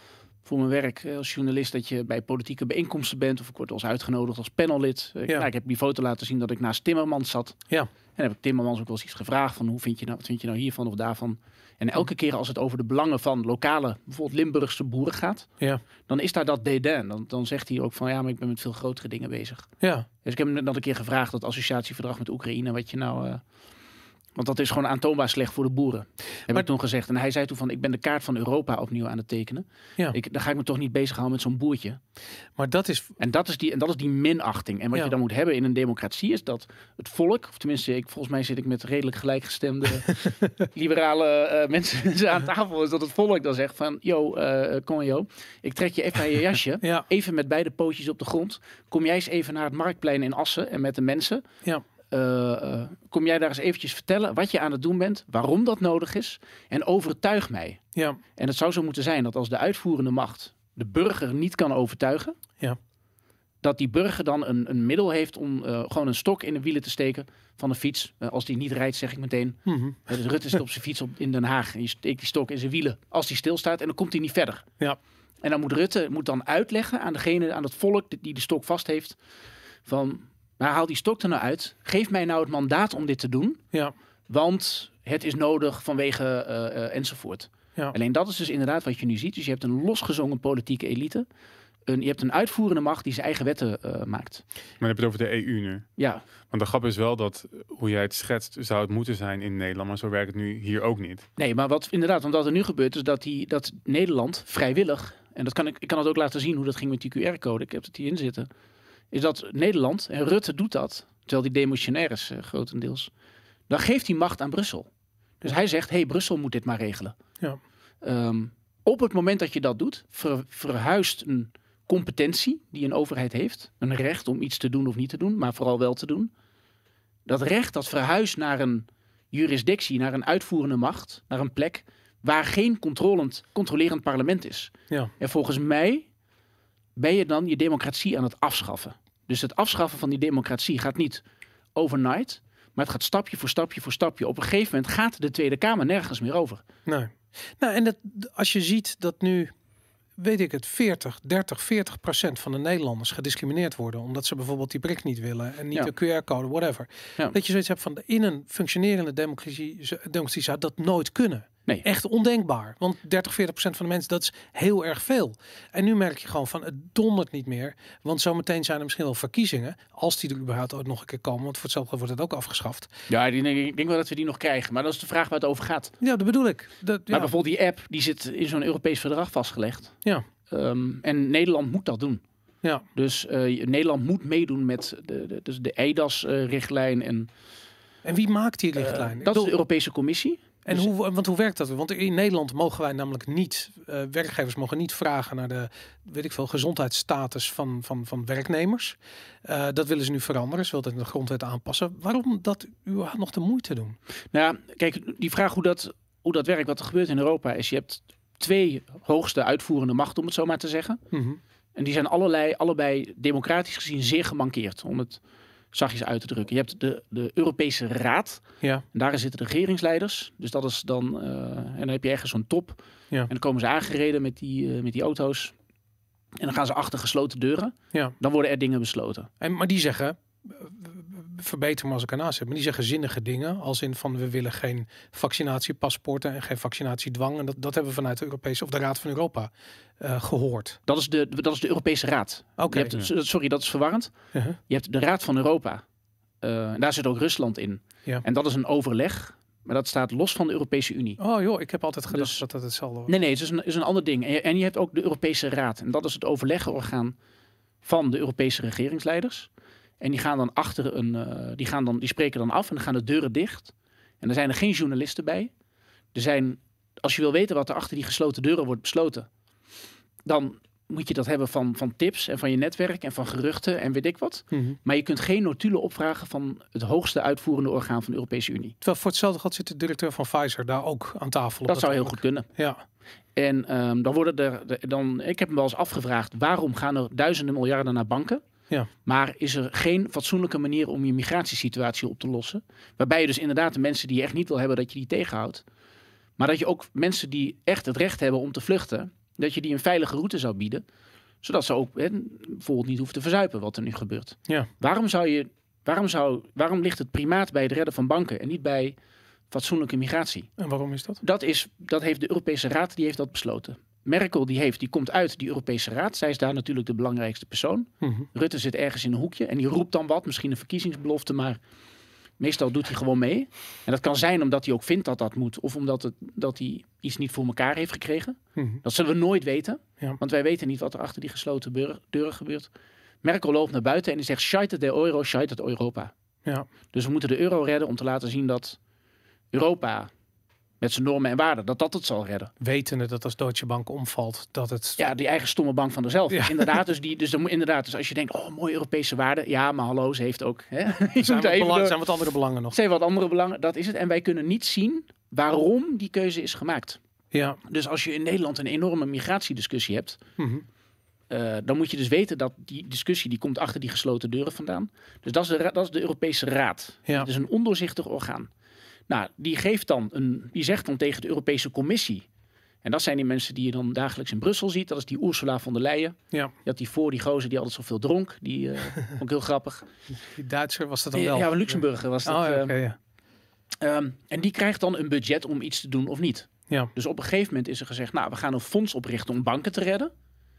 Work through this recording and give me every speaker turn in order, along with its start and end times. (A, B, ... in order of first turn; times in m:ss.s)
0:00.4-0:07.6 A
0:08.2-0:15.5 A
0:16.1-0:19.7 A
0:19.8-0:20.1 B
0:20.2-0:23.4 A
0:24.4-0:32.0 A
0:32.6-0:33.2 B
0:33.2-0:51.4 A
0:52.1-0:57.8 A
0:58.4-1:02.4 A
1:03.6-1:14.7 A
1:09.7-1:10.0 B
1:15.4-1:19.2 A
1:19.9-1:23.6 A
1:24.3-1:31.3 A
1:31.9-1:34.4 A
1:34.8-1:35.9 C
1:36.0-1:36.2 A
1:36.5-1:41.3 C
1:41.4-1:48.5 A
1:49.1-1:53.1 A
1:53.7-1:54.9 A
1:55.4-1:57.2 A
1:58.0-2:06.3 A
2:07.3-2:16.1 A
2:17.0-2:21.2 A
2:21.8-2:26.6 A
2:26.9-2:29.5 B
2:30.2-2:52.9 B
2:53.1-2:55.9 A
2:56.0-2:57.3 B
2:57.1-3:00.0 A
3:00.5-3:02.2 A
3:03.0-3:07.3 A
3:08.0-3:09.5 B
3:08.8-3:10.9 A
3:10.6-3:24.0 B
3:24.3-3:31.0 A
3:31.1-3:31.4 B
3:31.8-3:35.2 A
3:35.7-3:45.5 A
3:46.4-3:49.3 A
3:49.4-4:00.8 B
4:00.9-4:04.1 A
4:02.6-4:03.0 B
4:04.3-4:04.6 B
4:04.7-4:05.8 A
4:06.4-4:11.2 A
4:11.2-4:13.1 B
4:12.1-4:12.4 A
4:13.1-4:17.2 A
4:17.8-4:25.5 A
4:26.1-4:29.3 A
4:30.3-4:38.8 A
4:34.5-4:34.8 B
4:38.8-4:42.8 B
4:41.7-4:42.5 A
4:43.4-4:48.4 A
4:49.0-4:55.6 A
4:56.4-5:00.8 A
5:01.4-5:09.0 A
5:09.5-5:10.5 A
5:10.6-5:11.2 B
5:11.2-5:21.6 A
5:18.0-5:18.3 B
5:22.4-5:32.7 A
5:28.6-5:28.8 B
5:33.2-5:36.1 A
5:36.9-5:38.8 A
5:39.5-5:40.1 A
5:40.8-5:42.5 A
5:42.6-5:45.0 B
5:45.0-5:52.0 A
5:46.3-5:46.8 B
5:51.2-5:52.8 B
5:52.7-5:57.0 A
5:57.3-5:57.6 B
5:57.6-6:00.2 A
6:00.4-6:00.6 B
6:01.3-6:08.5 A
6:09.1-6:12.2 A
6:12.8-6:19.9 A
6:20.3-6:23.0 B
6:21.1-6:22.8 A
6:23.8-6:30.1 A